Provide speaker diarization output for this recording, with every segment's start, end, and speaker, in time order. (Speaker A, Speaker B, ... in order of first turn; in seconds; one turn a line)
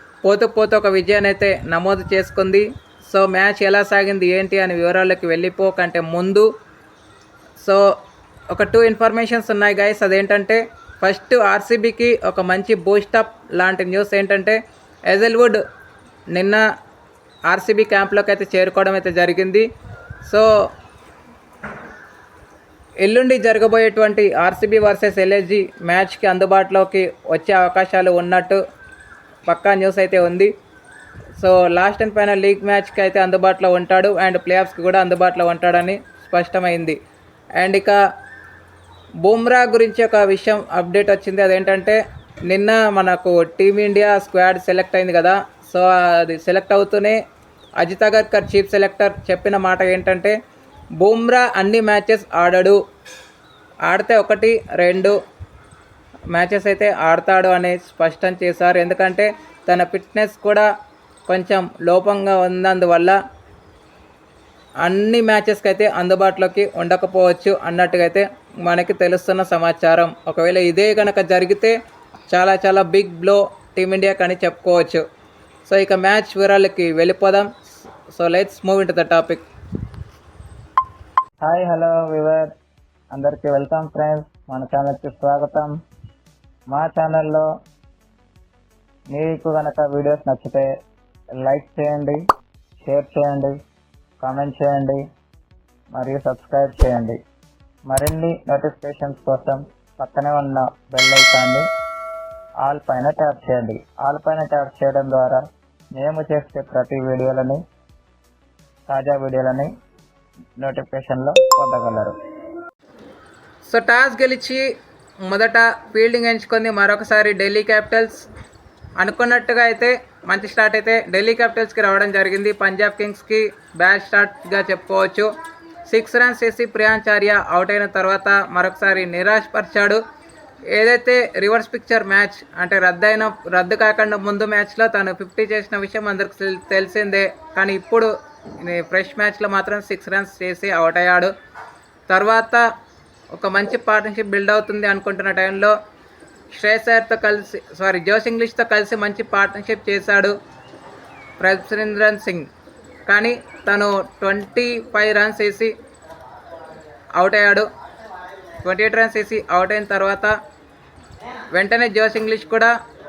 Speaker A: 0.2-6.5
Speaker A: 7.6-7.9
Speaker A: 8.5-15.6
Speaker A: 16.3-16.6
Speaker A: 17.5-19.7
Speaker A: 20.2-20.7
Speaker A: 23.0-28.6
Speaker A: 29.5-30.5
Speaker A: 31.4-37.0
Speaker A: 37.6-38.0
Speaker A: 39.2-47.2
Speaker A: 47.8-50.4
Speaker A: 51.0-52.8
Speaker A: 53.9-55.2
Speaker A: 56.3-60.7
Speaker A: 61.3-63.2
Speaker A: 64.8-71.8
Speaker A: 72.3-75.0
Speaker A: 75.7-77.5
Speaker A: 78.1-79.4
Speaker A: 81.5-82.4
Speaker B: 81.5-82.4
Speaker B: 83.2-85.7
Speaker A: 83.2-85.6
Speaker A: 86.8-87.4
Speaker B: 86.8-87.1
Speaker A: 89.1-90.7
Speaker B: 90.0-90.5
Speaker A: 91.5-92.1
Speaker B: 91.6-92.1
Speaker B: 92.9-93.5
Speaker A: 92.9-93.5
Speaker A: 94.2-95.0
Speaker A: 96.0-97.1
Speaker B: 96.1-97.1
Speaker A: 97.9-101.5
Speaker B: 98.0-98.7
Speaker B: 99.2-99.5
Speaker B: 100.5-101.6
Speaker A: 102.7-105.4
Speaker B: 102.7-105.1
Speaker B: 106.0-107.6
Speaker A: 106.0-107.5
Speaker B: 108.9-109.7
Speaker B: 110.7-112.1
Speaker A: 111.4-111.7
Speaker A: 113.7-114.7
Speaker A: 115.3-118.3
Speaker A: 119.0-125.3
Speaker A: 125.9-130.0
Speaker A: 130.7-141.3
Speaker A: 142.1-142.7
Speaker A: 143.3-145.8
Speaker A: 146.5-150.3
Speaker A: 151.4-152.5
Speaker A: 153.1-155.7
Speaker A: 157.2-157.7
Speaker A: 158.6-160.3
Speaker A: 161.5-162.7